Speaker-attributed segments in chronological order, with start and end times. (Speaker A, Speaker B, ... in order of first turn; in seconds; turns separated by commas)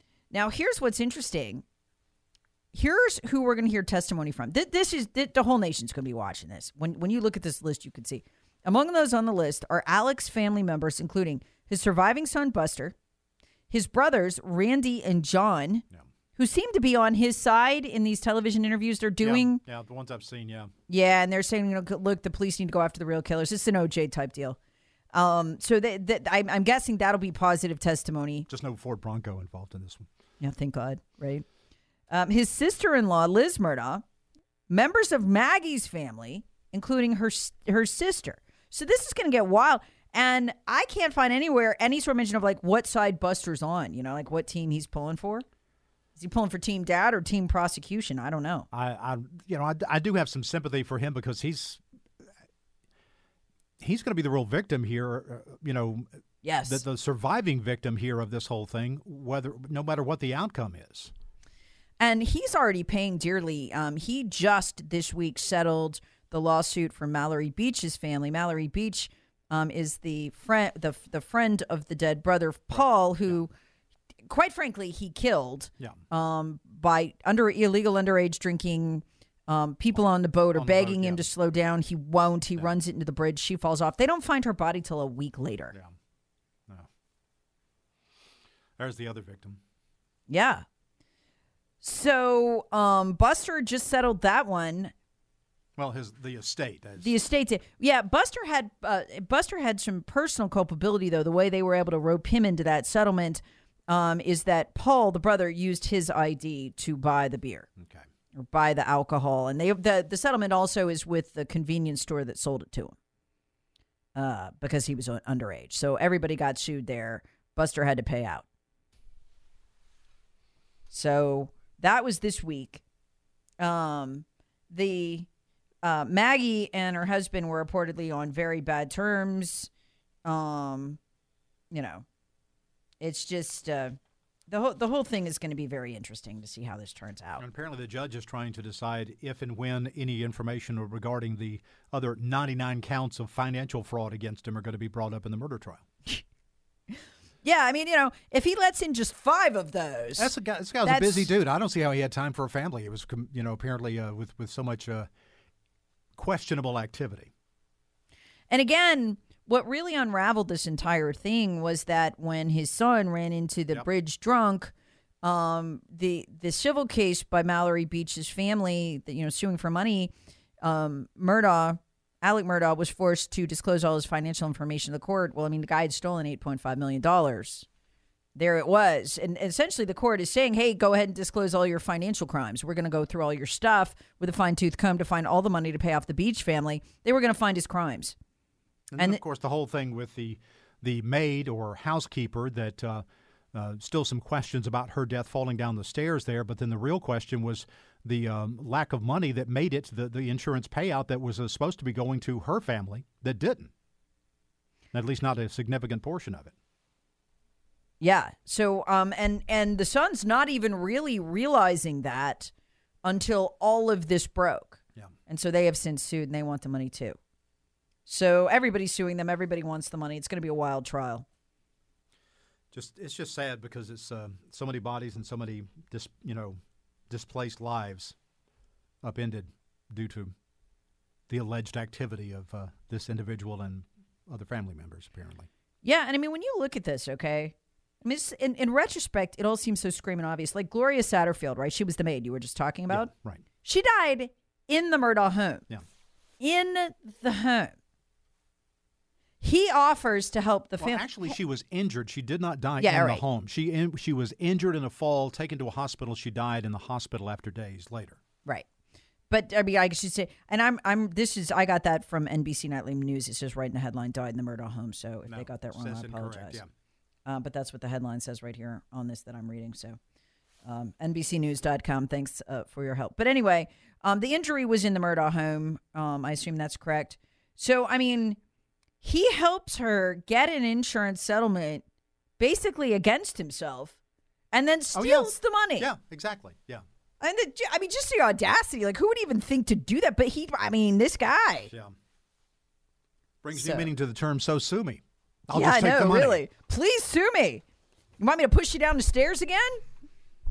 Speaker A: 0.3-1.6, Speaker A: 2.7-12.9, Speaker A: 13.7-15.8, Speaker A: 16.4-19.6, Speaker B: 19.2-20.7, Speaker A: 20.9-24.6, Speaker A: 25.1-28.5, Speaker B: 28.5-30.1, Speaker A: 30.4-31.4, Speaker A: 32.1-34.0, Speaker A: 34.7-45.4, Speaker A: 46.1-48.7, Speaker B: 48.7-51.8, Speaker B: 53.8-56.1, Speaker A: 56.4-56.8, Speaker B: 56.6-61.1, Speaker A: 62.0-73.5, Speaker A: 74.2-85.7, Speaker B: 80.5-81.3, Speaker B: 88.8-89.6, Speaker A: 90.3-90.6, Speaker A: 91.8-94.9, Speaker B: 95.8-97.1, Speaker A: 97.0-107.7, Speaker B: 107.8-108.0, Speaker A: 108.3-112.9, Speaker A: 114.1-118.5, Speaker A: 120.9-122.8, Speaker A: 123.6-125.3, Speaker A: 125.8-129.7, Speaker A: 130.2-131.0, Speaker A: 131.7-132.0, Speaker A: 133.0-133.9, Speaker A: 134.5-137.4, Speaker B: 137.4-145.8, Speaker A: 147.4-151.3, Speaker B: 150.2-155.1, Speaker B: 156.2-157.3, Speaker A: 158.5-177.7, Speaker A: 178.3-188.1, Speaker B: 188.9-203.7, Speaker B: 204.9-206.5, Speaker A: 208.0-212.5, Speaker A: 213.0-217.2, Speaker A: 218.1-221.2, Speaker B: 222.7-226.6, Speaker B: 227.1-228.1, Speaker B: 229.0-230.3, Speaker B: 231.3-235.5, Speaker A: 235.8-243.1, Speaker B: 242.9-243.4, Speaker A: 243.6-245.7, Speaker A: 246.4-247.7, Speaker A: 249.4-251.3, Speaker B: 250.8-258.2, Speaker A: 252.8-253.2, Speaker A: 259.3-266.6, Speaker B: 265.2-266.7, Speaker A: 267.2-270.0, Speaker A: 270.6-278.4, Speaker A: 279.0-281.8, Speaker A: 282.4-284.0, Speaker A: 284.5-285.9, Speaker B: 284.9-286.8, Speaker A: 287.2-291.7, Speaker B: 293.4-296.4, Speaker A: 293.5-293.9, Speaker A: 295.5-297.6, Speaker A: 298.2-299.8